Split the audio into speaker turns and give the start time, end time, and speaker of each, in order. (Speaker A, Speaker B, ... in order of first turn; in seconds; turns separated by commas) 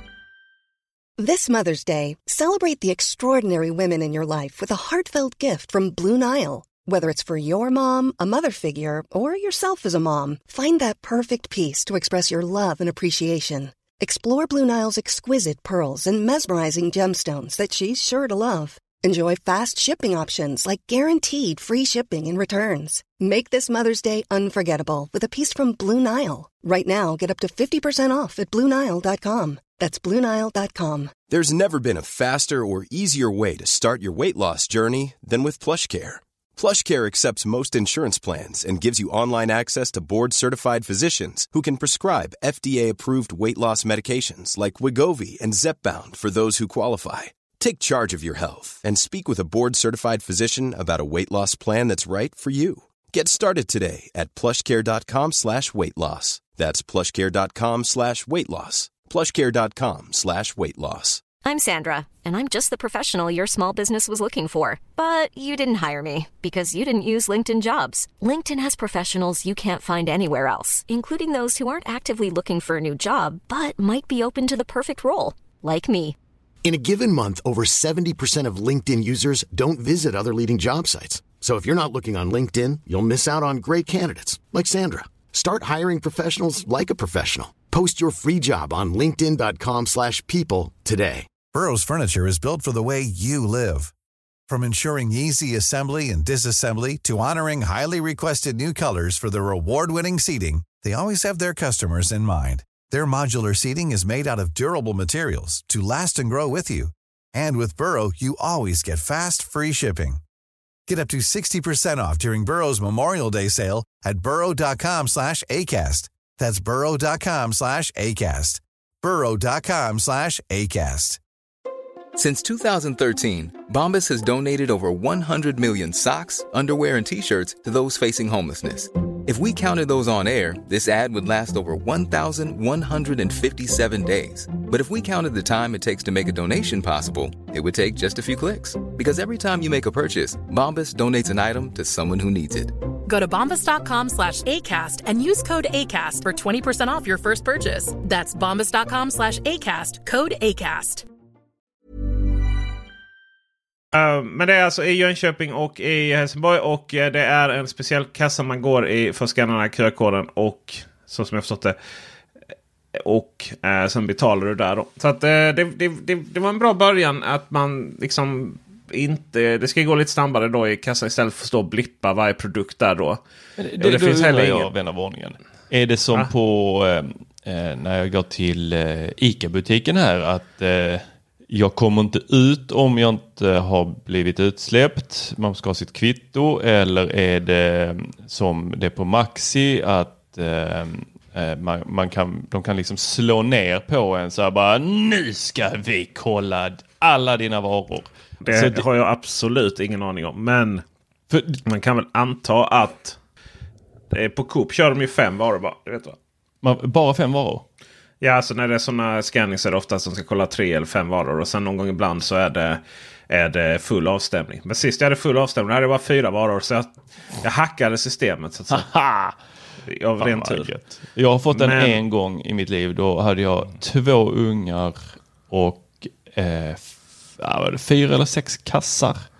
Speaker A: 1.2-31.1, Speaker B: 31.3-61.2, Speaker C: 61.4-76.2, Speaker D: 76.6-91.3, Speaker E: 91.5-93.9, Speaker E: 94.5-110.2, Speaker E: 110.9-121.2, Speaker F: 122.2-142.7, Speaker G: 143.1-151.1, Speaker H: 153.9-161.8, Speaker H: 163.0-173.2, Speaker I: 173.6-198.8, Speaker H: 173.8-174.7, Speaker H: 198.4-200.8, Speaker I: 201.3-201.6, Speaker H: 201.7-203.2, Speaker H: 204.1-206.2, Speaker I: 206.6-207.6, Speaker H: 208.2-218.9, Speaker I: 218.7-219.3, Speaker H: 219.9-220.7, Speaker I: 220.2-229.2, Speaker H: 221.5-222.0